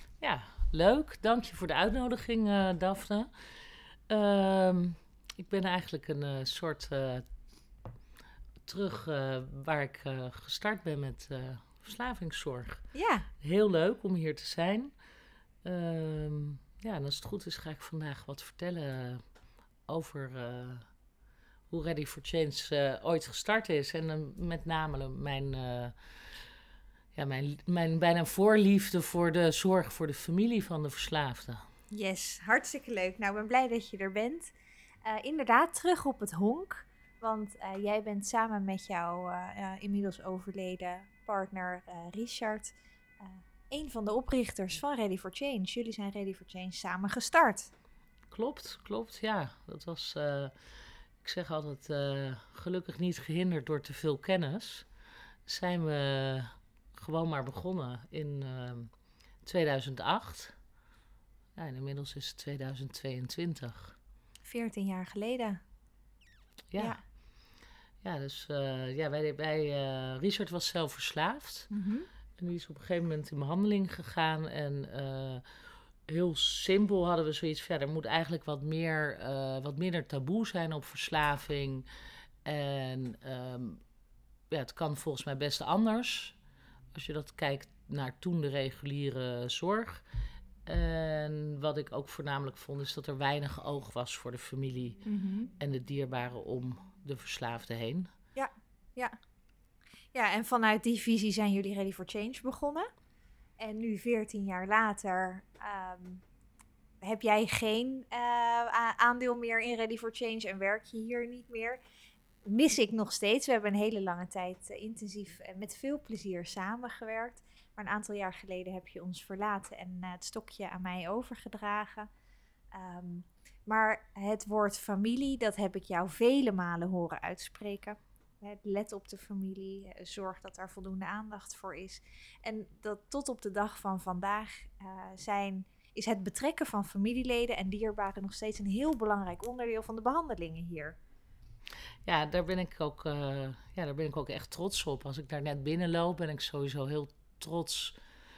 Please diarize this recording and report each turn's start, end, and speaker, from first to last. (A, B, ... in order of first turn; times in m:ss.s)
0:00.2-0:03.5 A
0:04.1-0:07.3 A
0:08.6-0:12.9 A
0:12.9-0:13.3 B
0:13.4-0:14.9 A
0:15.6-0:19.2 A
0:19.9-0:20.9 A
0:21.7-0:26.4 A
0:27.1-0:31.7 A
0:31.9-0:47.7 B
0:48.3-0:50.6 A
0:51.2-0:54.9 A
0:55.5-0:58.9 A
0:59.4-1:00.6 A
1:01.6-1:04.0 A
1:04.4-1:05.6 B
1:06.7-1:07.0 A
1:08.0-1:11.7 A
1:11.7-1:12.1 B
1:12.4-1:15.4 A
1:16.1-1:21.9 A
1:22.4-1:23.8 A
1:24.5-1:26.4 A
1:26.9-1:30.0 A
1:30.7-1:35.0 A
1:35.0-1:35.5 B
1:35.6-1:38.1 A
1:38.4-1:39.2 B
1:40.1-1:42.9 B
1:43.6-1:46.2 B
1:47.0-1:51.8 B
1:52.5-2:02.1 B
2:02.7-2:21.0 B
2:22.0-2:28.0 A